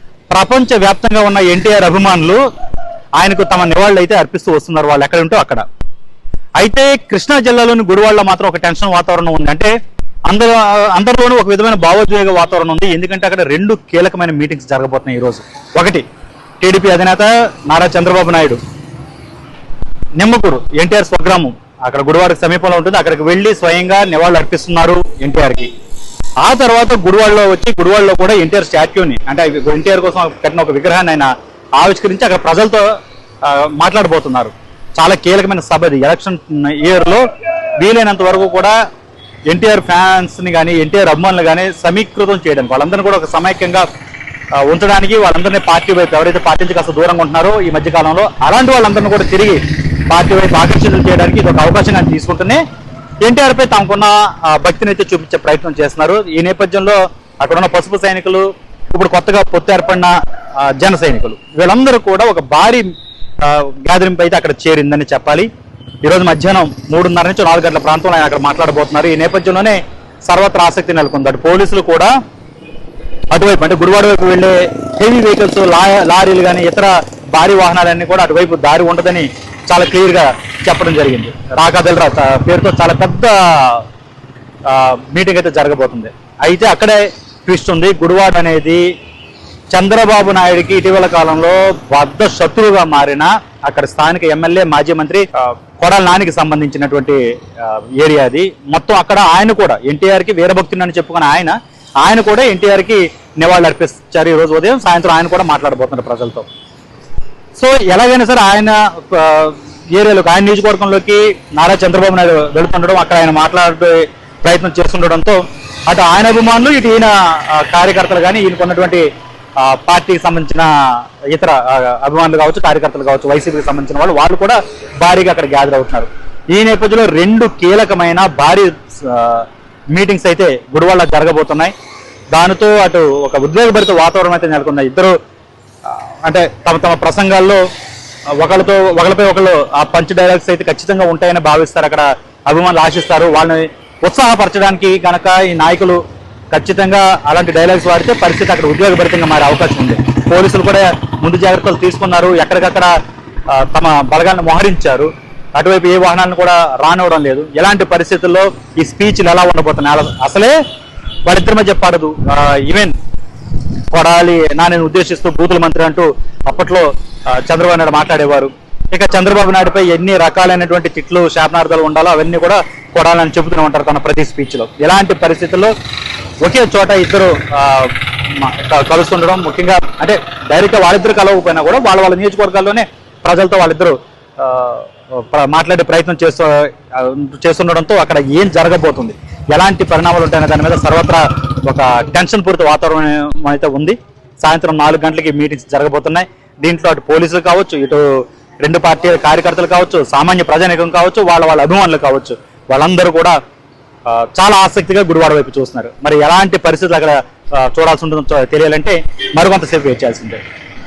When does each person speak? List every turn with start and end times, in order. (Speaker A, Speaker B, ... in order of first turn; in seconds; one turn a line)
Speaker A: 0.3-2.4
Speaker A: 3.2-5.7
Speaker A: 6.6-9.7
Speaker A: 10.3-16.0
Speaker A: 16.6-18.6
Speaker A: 20.2-25.7
Speaker A: 26.4-32.9
Speaker A: 33.4-37.2
Speaker A: 37.8-38.7
Speaker A: 39.5-43.9
Speaker A: 44.6-52.6
Speaker A: 53.2-65.5
Speaker A: 66.0-72.1
Speaker A: 73.3-83.8
Speaker A: 84.7-88.9
Speaker A: 89.7-106.5
Speaker A: 107.6-119.0
Speaker A: 119.6-120.7
Speaker A: 121.3-131.7
Speaker A: 132.3-135.1
Speaker A: 135.8-137.6
Speaker A: 138.4-146.0
Speaker A: 146.5-152.9
Speaker A: 153.5-160.6
Speaker A: 161.2-162.9
Speaker A: 163.9-175.7
Speaker A: 176.4-203.4
Speaker A: 204.1-210.4